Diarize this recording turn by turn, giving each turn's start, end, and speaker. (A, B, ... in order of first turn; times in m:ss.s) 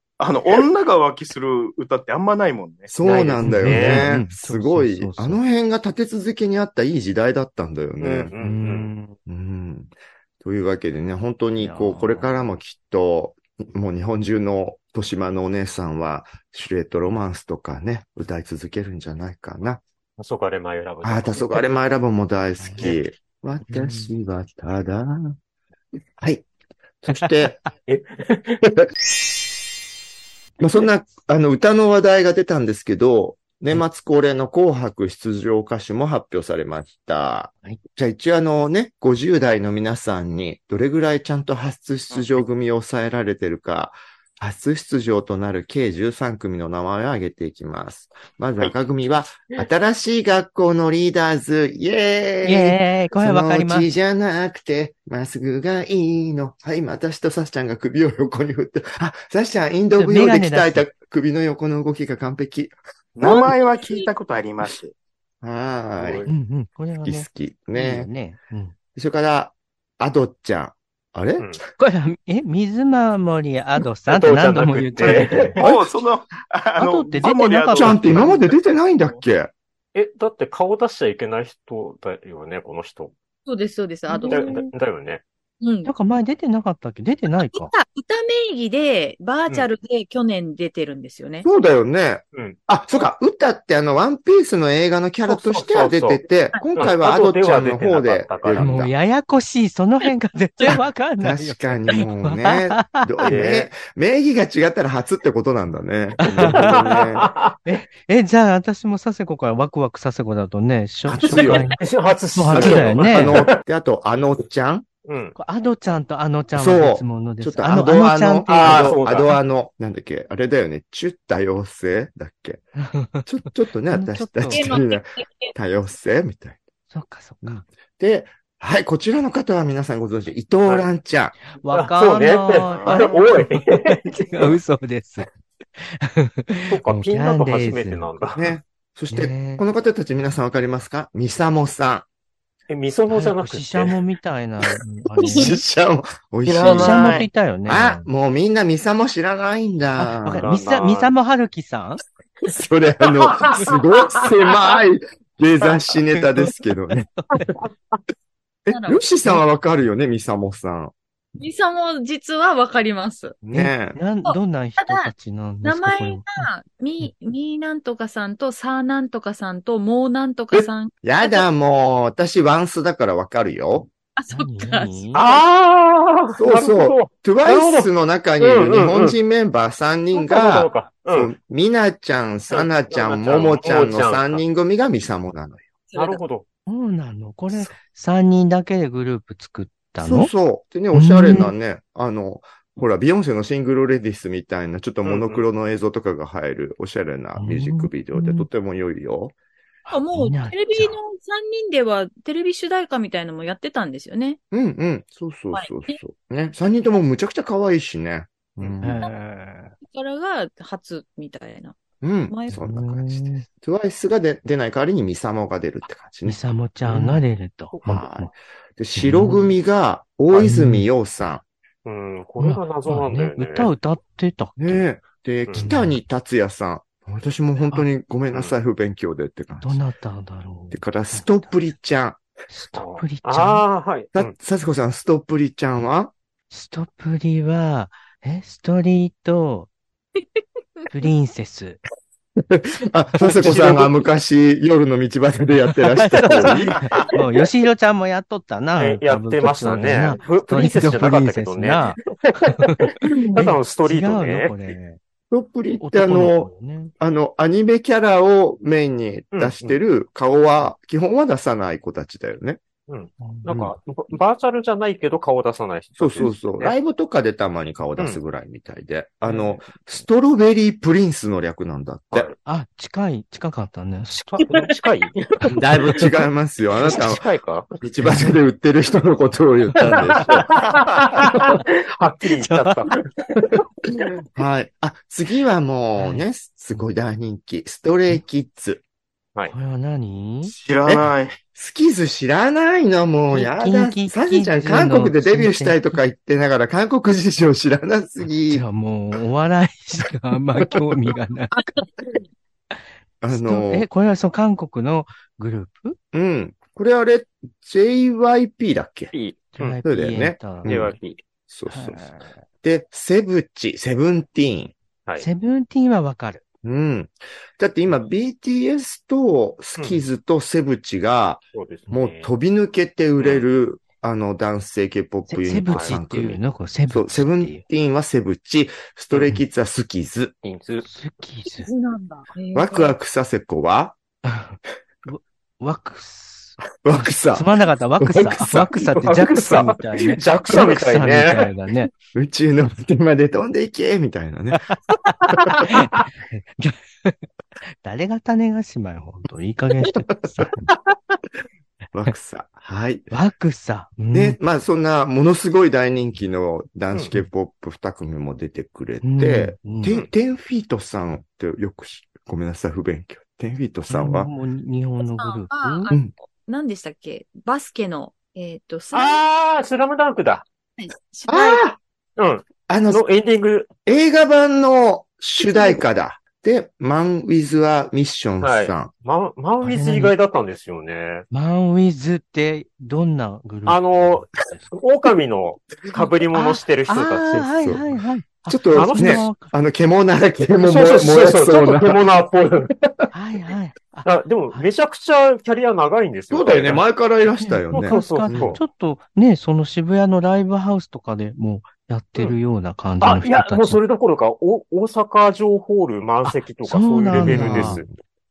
0:00.2-0:03.4 A
0:02.9-0:08.3 B
0:03.0-0:04.1 C
0:03.4-0:05.4 D
0:08.0-0:08.9 C
0:08.4-0:09.2 D
0:09.3-0:19.8 B
0:11.6-0:12.4 D
0:20.2-0:21.7 C
0:21.0-0:25.4 B
0:22.6-0:22.9 D
0:23.7-0:24.1 D
0:26.2-0:26.5 B
0:27.0-0:27.6 B
0:27.9-0:28.6 C
0:30.6-1:03.5 B
0:52.4-0:53.9 D
0:59.9-1:00.9 D
1:03.2-1:04.9 A
1:05.4-1:06.3 B
1:06.0-1:06.3 C
1:06.3-1:08.7 D
1:07.0-1:08.1 B
1:09.0-1:11.5 B
1:11.8-1:15.6 D
1:14.1-1:15.6 C
1:15.0-1:15.9 B
1:15.1-1:19.2 A
1:16.8-1:18.4 D
1:17.7-1:19.5 B
1:20.0-1:23.1 C
1:23.5-1:24.7 E
1:24.1-1:24.5 D
1:24.3-1:25.2 C
1:25.6-1:25.9 E
1:25.8-1:27.7 D
1:27.5-1:31.5 E
1:31.4-1:38.9 B
1:35.2-1:36.2 C
1:36.8-1:38.8 C
1:38.6-1:43.3 D
1:41.2-1:47.3 B
1:43.2-1:43.7 C
1:46.2-1:46.9 D
1:46.4-1:47.6 C
1:47.6-1:51.8 D
1:51.1-1:51.7 B
1:51.3-1:53.6 C
1:52.4-1:53.5 D
1:52.5-1:54.9 B
1:55.0-1:55.4 C
1:55.4-1:59.0 D
1:56.6-2:02.7 B
1:58.5-1:59.4 C
2:02.8-2:03.3 D
2:03.2-2:06.6 B
2:03.9-2:04.7 D
2:04.5-2:05.5 E
2:06.9-2:07.6 D
2:07.4-2:11.4 B
2:11.5-2:18.2 D
2:11.7-2:14.1 C
2:12.7-2:13.0 A
2:16.7-2:18.5 C
2:18.4-2:22.1 B
2:19.1-2:19.6 D
2:22.7-2:24.0 C
2:23.1-2:25.6 D
2:25.3-2:30.5 B
2:26.4-2:27.3 A
2:26.6-2:28.1 D
2:30.0-2:32.0 D
2:30.4-2:31.1 C
2:32.5-2:37.1 B
2:33.2-2:33.8 C
2:38.6-2:40.9 B
2:38.7-2:39.2 E
2:41.4-2:43.4 E
2:43.4-2:44.0 B
2:43.5-2:46.5 D
2:44.2-2:45.1 E
2:45.6-2:51.4 E
2:50.5-2:53.9 B
2:54.2-2:55.4 E
2:54.3-2:55.2 D
2:55.1-2:59.2 C
2:56.4-3:05.7 B
3:00.1-3:01.3 C
3:02.5-3:04.4 C
3:05.9-3:06.2 E
3:06.0-3:06.4 C
3:06.7-3:10.3 D
3:10.0-3:19.3 B
3:10.9-3:11.5 D
3:15.0-3:15.5 C
3:17.4-3:18.5 D
3:19.9-3:21.0 D
3:19.9-3:24.4 E
3:24.5-3:29.0 B
3:25.5-3:26.0 E
3:28.6-3:29.7 D
3:29.8-3:31.8 E
3:32.0-3:37.2 B
3:32.3-3:32.6 E
3:32.5-3:33.4 D
3:36.2-3:38.3 D
3:37.8-3:41.4 B
3:39.0-3:39.5 D
3:40.4-3:40.9 D
3:41.8-3:43.7 C
3:42.4-3:44.9 D
3:44.6-3:49.8 B
3:45.6-3:46.0 D
3:49.6-3:51.5 D
3:50.7-3:52.2 B
3:52.5-3:53.6 D
3:52.8-3:54.3 C
3:54.1-3:56.1 B
3:56.5-3:59.7 D
4:00.9-4:01.8 D
4:02.5-4:06.9 B
4:03.2-4:04.0 C
4:05.9-4:15.0 D
4:08.8-4:14.6 C
4:15.3-4:22.6 B
4:15.8-4:16.9 D
4:19.3-4:19.8 C
4:22.9-4:26.8 C
4:23.2-4:23.5 D
4:23.5-4:23.7 B
4:26.0-4:32.3 B
4:29.3-4:29.6 D
4:32.4-4:34.5 D
4:34.4-4:36.1 C
4:35.5-4:37.3 B
4:36.8-4:37.7 C
4:37.8-4:40.5 B
4:38.0-4:38.4 D
4:39.7-4:40.4 D
4:39.9-4:43.0 C
4:42.3-4:42.8 D
4:44.4-4:48.8 B
4:46.0-4:46.3 D
4:49.5-4:50.6 D
4:50.5-4:51.4 A
4:51.6-4:58.7 B
4:53.3-4:56.0 D
4:58.5-5:01.6 D
5:03.2-5:03.9 B
5:03.3-5:06.0 D
5:06.1-5:09.1 B
5:09.1-5:09.8 C
5:09.6-5:10.7 D
5:09.8-5:11.0 B
5:10.6-5:11.2 C
5:11.5-5:12.1 B
5:11.7-5:12.4 D
5:12.6-5:14.7 B
5:15.2-5:16.4 D
5:16.6-5:30.4 B
5:21.5-5:22.3 C
5:23.2-5:23.5 C
5:25.3-5:27.6 D
5:25.7-5:26.0 C
5:30.4-5:30.8 C
5:30.8-5:31.7 D
5:31.6-5:33.0 E
5:32.6-5:34.0 B
5:34.2-5:41.9 D
5:36.8-5:38.8 B
5:39.0-5:41.5 C
5:42.1-5:44.7 B
5:44.5-5:47.2 D
5:45.3-5:45.6 B
5:47.8-5:50.6 D
5:51.9-5:53.1 B
5:53.1-5:54.4 D
5:54.1-6:04.3 B
5:59.0-6:00.0 D
5:59.8-6:00.1 C
6:03.9-6:05.9 D
6:05.1-6:09.2 E
6:08.9-6:10.5 C
6:10.8-6:11.6 E
6:11.3-6:11.8 B
6:12.2-6:13.7 C
6:12.7-6:13.0 B
6:13.9-6:18.9 B
6:15.5-6:15.8 E
6:18.4-6:21.3 C
6:19.6-6:20.1 D
6:21.3-6:24.7 D
6:23.7-6:27.5 C
6:26.0-6:29.5 D
6:28.5-6:32.0 B
6:28.7-6:29.3 C
6:30.6-6:32.7 C
6:33.1-6:34.7 D
6:34.0-6:36.8 C
6:36.3-6:38.6 B
6:37.4-6:43.8 D
6:37.7-6:38.6 C
6:43.0-6:47.9 C
6:46.2-6:47.8 D
6:47.1-6:47.9 B